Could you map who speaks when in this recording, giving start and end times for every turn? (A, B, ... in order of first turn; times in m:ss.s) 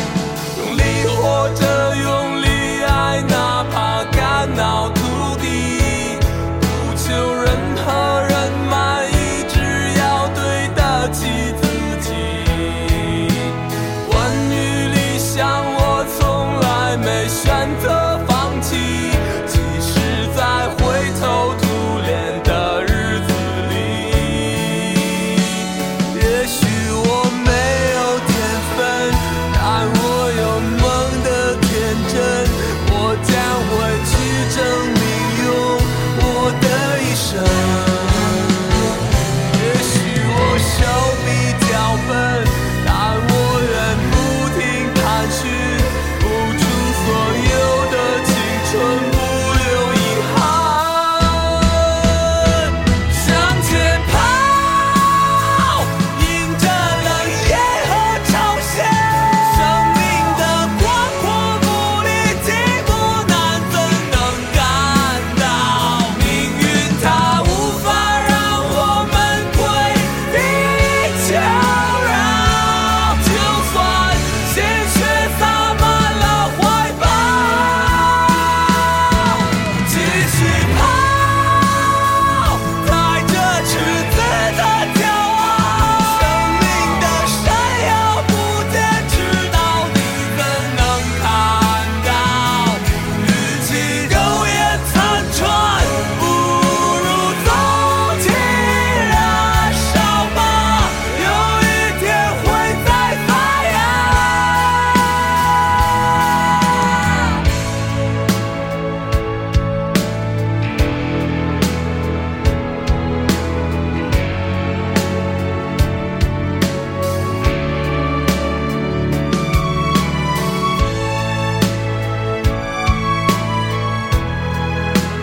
0:00.5-0:38.8 A
0:39.4-1:45.3 A
1:46.8-1:47.4 A